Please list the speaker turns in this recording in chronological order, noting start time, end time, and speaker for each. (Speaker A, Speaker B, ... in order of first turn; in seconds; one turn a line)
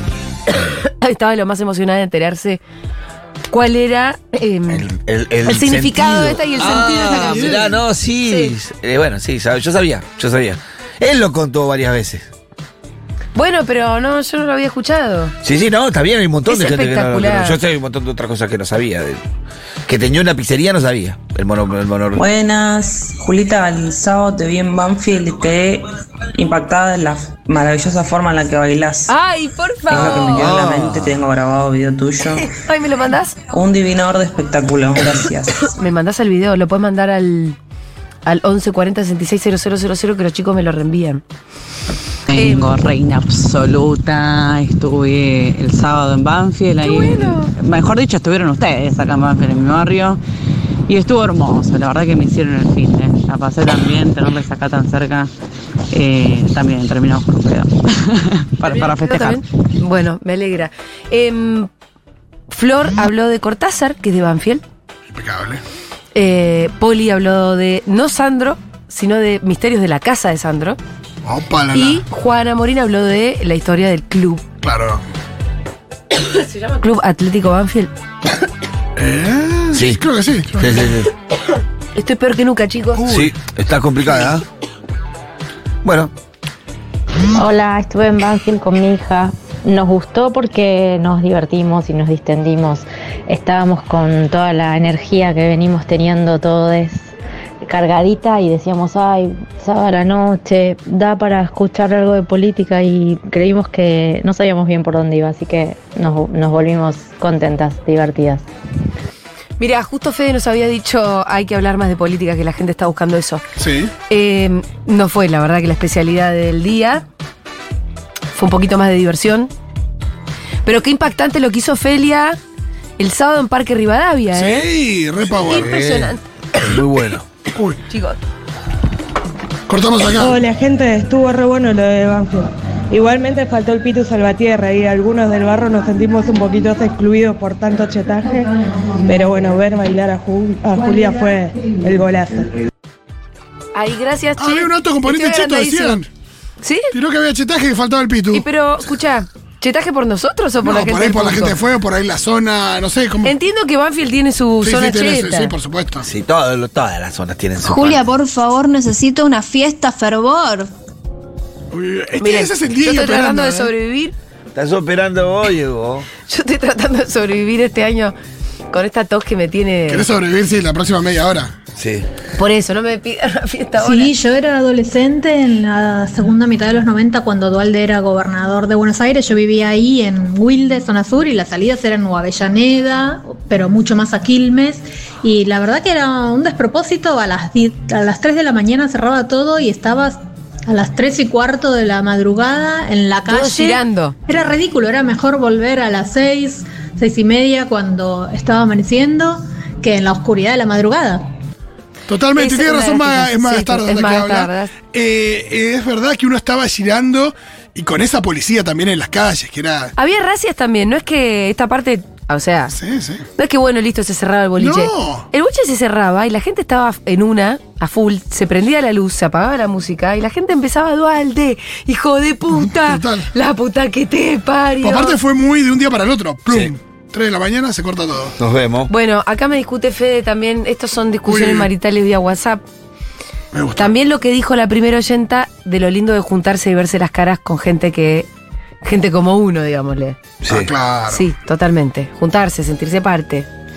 Speaker A: 0.8-2.6
Speaker A: 3.5-4.8
Speaker B: 4.7-12.2
Speaker A: 5.4-7.7
Speaker C: 7.2-7.7
Speaker A: 8.3-8.5
Speaker A: 13.3-15.3
Speaker B: 15.4-19.2
Speaker A: 16.5-17.6
Speaker B: 19.9-22.2
Speaker D: 22.1-29.1
Speaker A: 29.1-30.5
Speaker D: 29.9-32.5
Speaker B: 29.9-31.2
Speaker A: 32.5-33.4
Speaker D: 33.5-35.7
Speaker A: 35.7-37.6
Speaker A: 38.2-41.2
Speaker E: 42.3-50.2
Speaker A: 42.3-42.8
Speaker A: 46.8-47.5
Speaker E: 50.9-55.3
Speaker E: 55.9-59.4
Speaker A: 58.6-61.7
Speaker A: 62.5-64.6
Speaker C: 65.1-65.6
Speaker A: 66.1-70.8
Speaker C: 71.2-72.0
Speaker A: 71.7-74.4
Speaker C: 74.6-75.0
Speaker A: 76.3-77.9
Speaker C: 79.0-80.8
Speaker B: 79.7-80.0
Speaker B: 80.5-81.1
Speaker A: 81.9-83.0
Speaker C: 83.0-83.3
Speaker B: 83.1-84.4
Speaker C: 84.0-84.3
Speaker B: 85.8-86.1
Speaker F: 87.3-97.1
Speaker F: 97.6-108.4
Speaker A: 109.6-113.4
Speaker C: 113.6-113.9
Speaker A: 114.1-117.0
Speaker A: 118.3-119.5
Speaker A: 120.7-122.4
Speaker A: 123.0-124.7
Speaker C: 124.3-125.8
Speaker A: 125.4-126.2
Speaker B: 125.5-127.2
Speaker A: 127.9-128.2
Speaker C: 129.7-130.4
Speaker G: 130.2-142.5
Speaker A: 143.8-146.0
Speaker C: 144.4-146.1
Speaker A: 146.6-146.9
Speaker C: 146.9-148.4
Speaker A: 148.3-151.6
Speaker C: 150.6-153.3
Speaker A: 153.2-155.5
Speaker C: 154.6-156.1
Speaker B: 156.0-158.0
Speaker H: 157.6-160.7
Speaker C: 161.7-163.7
Speaker A: 162.2-164.1
Speaker B: 164.5-166.1
Speaker A: 166.3-168.1
Speaker A: 168.7-170.1
Speaker C: 169.9-171.5
Speaker B: 171.8-172.1
Speaker A: 172.4-174.1
Speaker I: 173.8-201.3
Speaker A: 193.3-194.2
Speaker C: 202.1-209.9
Speaker A: 202.3-204.7
Speaker A: 210.0-212.8
Speaker C: 212.7-213.2
Speaker A: 213.4-225.2
Speaker C: 214.6-215.3
Speaker C: 222.6-223.3
Speaker C: 224.8-228.3
Speaker B: 228.4-228.9
Speaker A: 228.9-232.6
Speaker C: 231.3-231.7
Speaker C: 233.5-233.9
Speaker A: 233.8-238.3
Speaker A: 238.8-240.2
Speaker B: 240.4-240.7
Speaker C: 240.5-241.2
Speaker A: 241.1-243.5